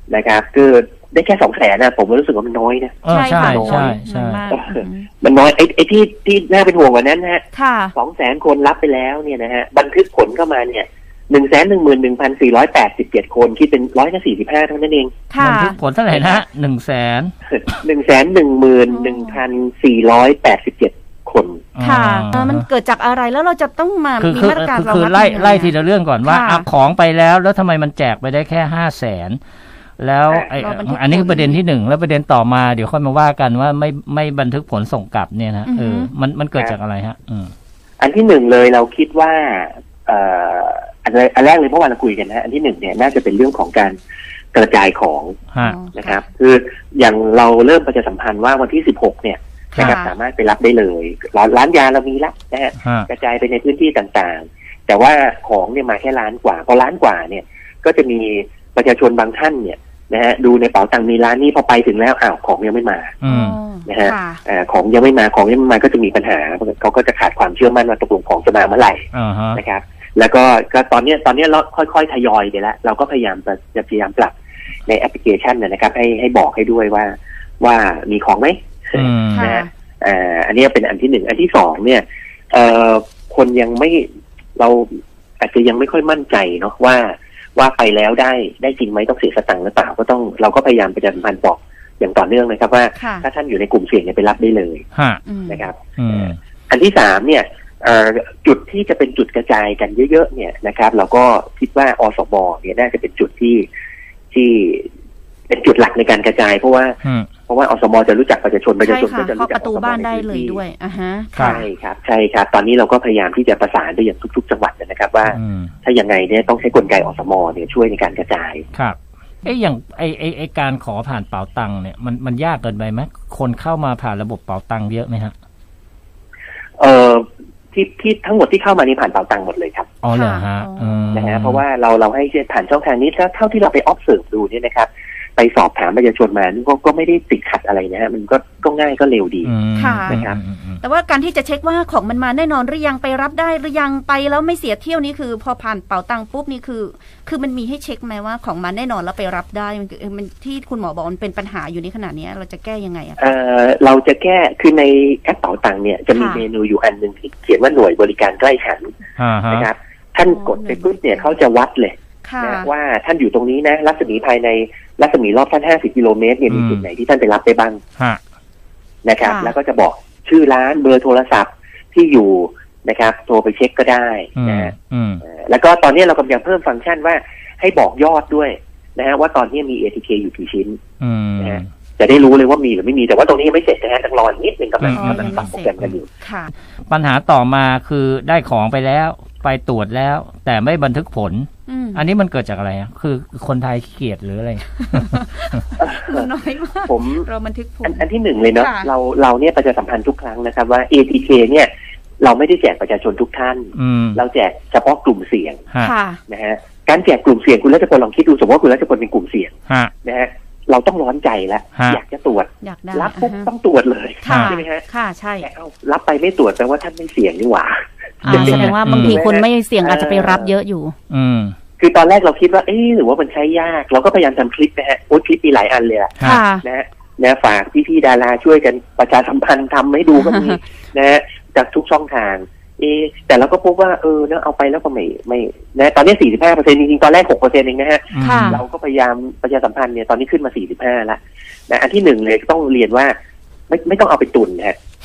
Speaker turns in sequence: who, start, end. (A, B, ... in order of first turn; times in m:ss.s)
0:00.1-0:04.0 A
0:03.0-0:04.4 B
0:03.1-0:05.1 C
0:04.5-0:15.2 A
0:07.5-0:07.9 C
0:15.3-0:15.8 C
0:15.4-0:17.3 B
0:16.1-0:16.4 A
0:17.5-0:21.6 A
0:18.9-0:19.4 C
0:21.8-0:22.6 B
0:21.8-0:26.7 C
0:24.2-0:29.4 B
0:30.0-0:37.5 B
0:30.6-0:31.6 C
0:35.6-0:36.1 C
0:38.0-0:44.0 A
0:44.5-0:45.4 A
0:45.6-0:46.2 C
0:45.9-1:03.2 A
0:49.7-0:50.1 C
0:52.8-0:53.1 B
1:03.2-1:03.6 B
1:03.3-1:04.4 C
1:03.9-1:14.3 A
1:09.1-1:09.6 B
1:14.8-1:34.8 A
1:18.9-1:19.6 B
1:19.3-1:19.7 C
1:33.0-1:33.2 C
1:34.9-1:35.2 B
1:35.2-1:35.7 C
1:35.5-1:43.7 A
1:36.0-1:36.4 B
1:44.3-1:44.9 A
1:45.5-1:50.6 A
1:47.0-1:47.3 B
1:48.8-1:51.7 C
1:51.4-1:51.6 B
1:51.4-1:58.6 A
1:55.3-1:55.7 B
1:58.7-2:05.3 B
2:06.8-2:09.9 A
2:10.0-2:11.6 B
2:10.1-2:11.1 C
2:11.1-2:19.5 A
2:19.4-2:20.8 B
2:19.8-2:20.2 C
2:20.1-2:20.4 A
2:20.8-2:33.3 C
2:33.2-2:38.9 A
2:36.1-2:36.4 C
2:39.2-2:39.7 B
2:39.5-2:47.8 A
2:40.3-2:41.0 C
2:42.2-2:42.7 C
2:46.5-2:46.8 B
2:49.0-3:00.8 A
2:49.2-2:49.5 C
2:54.4-2:55.2 B
3:01.0-3:01.7 B
3:01.4-3:06.1 A
3:04.8-3:05.9 B
3:04.9-3:06.5 C
3:06.9-3:15.6 B
3:11.7-3:12.0 C
3:14.9-3:18.9 C
3:15.8-3:16.3 A
3:16.8-3:17.3 A
3:17.8-3:25.6 A
3:23.7-3:24.2 B
3:25.8-3:26.2 C
3:26.3-3:34.8 A
3:31.8-3:32.0 B
3:32.6-3:33.5 C
3:34.2-3:35.5 C
3:34.3-3:34.6 B
3:35.4-3:40.5 A
3:38.2-3:41.0 C
3:38.2-3:39.2 B
3:41.1-3:41.5 B
3:41.8-4:03.1 A
3:46.2-3:46.6 C
3:50.3-3:50.5 C
3:58.1-3:58.6 B
3:58.2-3:58.6 C
4:03.7-4:04.8 A